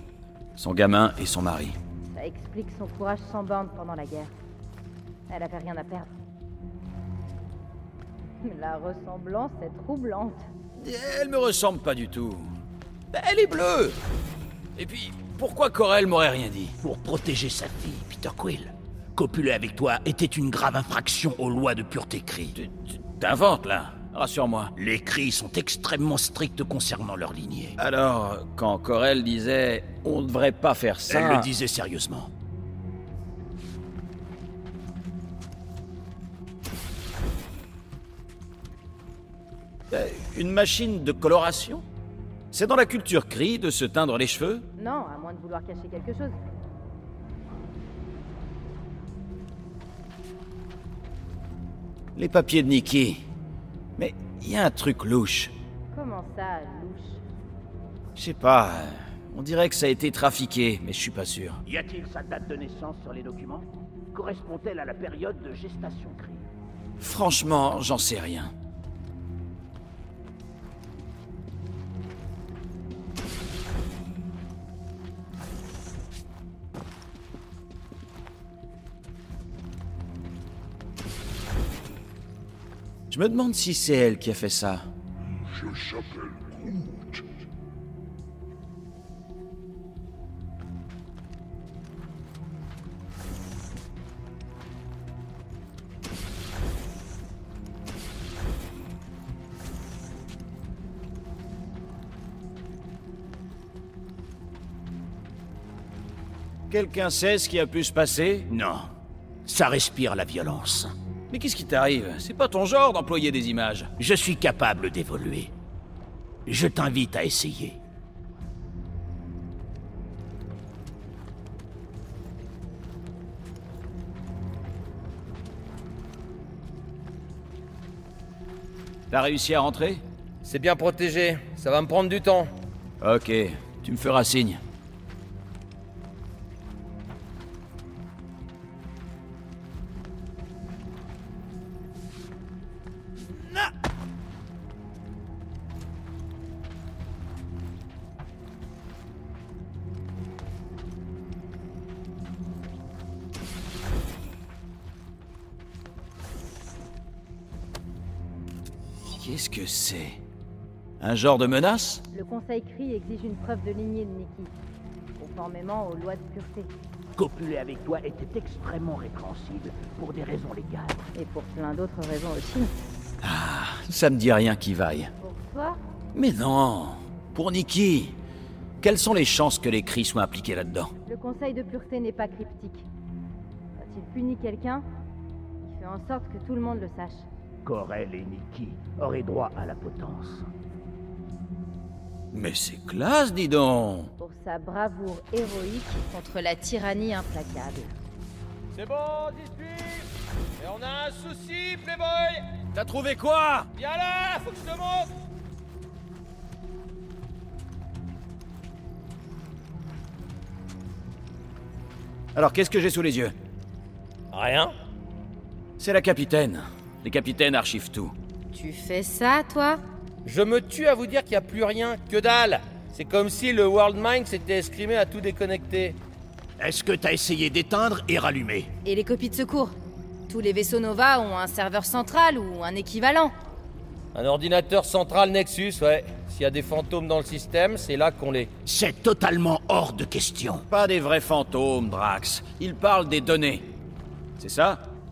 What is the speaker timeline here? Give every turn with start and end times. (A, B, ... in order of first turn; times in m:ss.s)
0:00.6-0:01.8 A
0:02.1-0:04.3 B
0:05.3-0:06.1 B
0:08.4-0:10.5 B
0:10.8-0:12.5 A
0:13.1-0:14.0 A
0:14.8-0:16.8 A
0:16.8-0:22.6 C
0:22.6-0:24.7 A
0:24.8-0:27.8 C
0:27.8-0:31.5 A
0:31.1-0:32.3 C
0:39.9-0:41.8 A
0:42.5-0:44.7 A
0:44.8-0:46.4 B
0:52.2-0:53.2 A
0:54.0-0:55.5 A
0:55.9-0:57.2 B
0:58.2-1:01.6 A
1:01.6-1:06.5 C
1:07.0-1:08.5 A
1:23.1-1:24.9 A
1:25.3-1:27.3 D
1:46.7-1:48.5 A
1:48.5-1:48.9 C
1:49.4-1:50.9 C
1:51.3-1:53.9 A
1:54.0-1:55.5 C
1:56.5-1:57.8 C
2:09.1-2:10.0 A
2:10.4-2:12.5 E
2:13.0-2:14.6 A
2:39.1-2:40.2 A
2:41.0-2:42.0 A
2:42.1-2:44.5 B
2:45.2-2:46.7 B
2:47.2-2:51.0 C
2:51.2-2:52.7 B
2:53.2-2:55.1 A
2:55.2-2:55.8 B
2:56.1-2:58.2 A
2:58.8-3:00.9 A
3:01.1-3:02.8 B
3:03.8-3:04.8 B
3:05.6-3:07.3 B
3:07.6-3:10.5 C
3:12.3-3:14.1 A
3:14.2-3:17.9 B
3:18.7-3:22.4 E
3:22.7-3:23.7 A
3:23.8-3:25.1 E
3:32.4-3:33.3 A
3:34.3-3:34.7 E
3:35.8-3:38.1 A
3:38.5-3:39.8 B
3:40.2-3:46.0 E
3:46.6-3:48.7 C
3:48.8-3:49.8 B
3:50.3-3:53.3 B
3:54.2-3:58.5 E
3:58.6-4:00.7 C
4:00.7-4:03.6 A
4:04.4-4:04.8 A